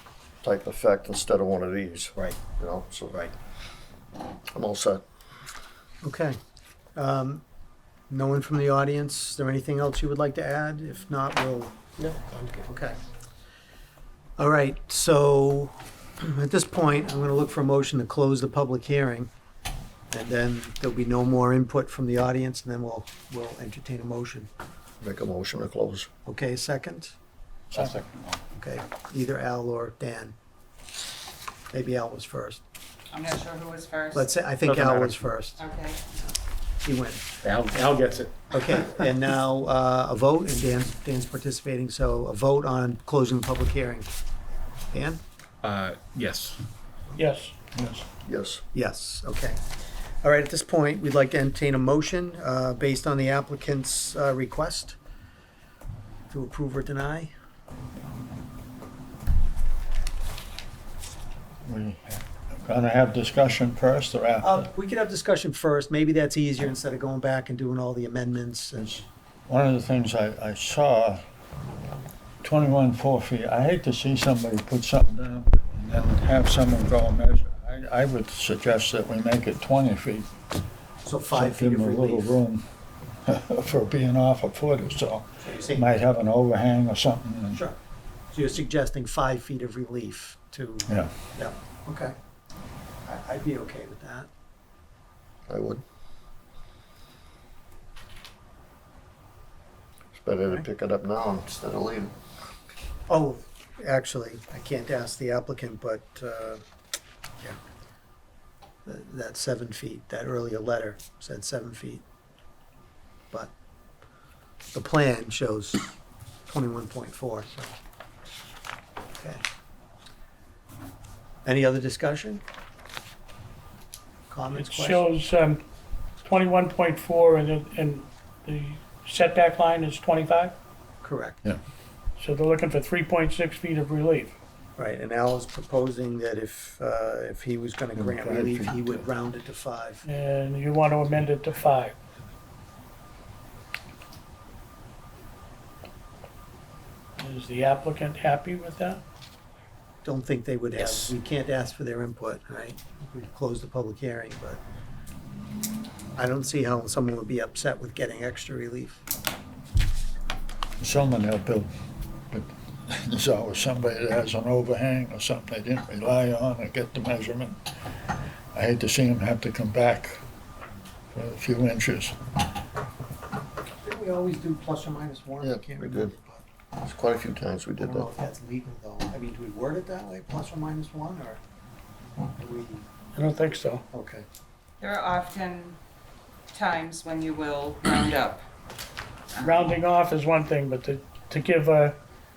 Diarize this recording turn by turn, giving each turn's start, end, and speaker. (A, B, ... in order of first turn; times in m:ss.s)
0:00.4-0:03.3 A
0:04.5-0:05.0 A
0:06.0-0:06.4 B
0:06.9-0:07.4 B
0:08.1-0:13.0 B
0:14.4-0:19.3 B
0:20.1-0:24.5 B
0:25.0-0:26.1 A
0:26.2-0:27.1 B
0:27.7-0:28.4 C
0:28.5-0:30.3 B
0:31.7-0:32.6 B
0:33.1-0:34.3 D
0:34.1-0:35.6 B
0:34.6-0:35.3 E
0:35.6-0:36.0 D
0:36.8-0:37.3 B
0:37.4-0:39.1 E
0:38.5-0:44.1 B
0:44.9-0:45.2 B
0:45.6-0:46.6 E
0:47.2-0:47.5 F
0:47.7-0:48.0 C
0:48.2-0:48.6 A
0:48.7-0:49.6 B
0:50.2-0:55.0 B
0:56.3-0:57.3 B
1:01.6-1:04.7 C
1:04.4-1:09.0 B
1:08.8-1:11.2 C
1:12.4-1:20.3 C
1:21.0-1:22.4 B
1:21.3-1:22.6 C
1:23.3-1:27.6 C
1:25.4-1:25.9 B
1:28.3-1:32.1 B
1:33.0-1:34.3 B
1:35.5-1:35.8 A
1:40.2-1:42.1 A
1:43.1-1:46.6 B
1:48.8-1:52.0 B
1:54.7-1:55.8 B
1:56.5-1:57.7 B
2:01.4-2:02.4 B
2:04.3-2:05.0 B
2:04.5-2:05.6 F
2:06.2-2:10.6 F
2:11.0-2:11.4 B
2:12.2-2:14.4 F
2:14.8-2:20.0 B
2:18.0-2:19.0 C
2:20.0-2:22.0 F
2:27.2-2:29.0 F
2:30.0-2:34.6 B
2:30.7-2:31.1 E
2:36.2-2:39.0 B
2:40.8-2:41.7 C
2:42.3-2:47.6 C
2:48.5-2:50.2 C
2:51.1-2:52.2 C
2:53.8-2:56.4 B
2:55.4-2:56.1 A
2:56.8-2:58.1 A
2:57.8-3:01.4 B
3:02.4-3:02.8 B
3:03.1-3:03.8 F
3:03.9-3:04.2 B
3:04.8-3:05.8 D
3:06.5-3:08.4 D
3:09.3-3:09.7 D
3:09.4-3:12.0 F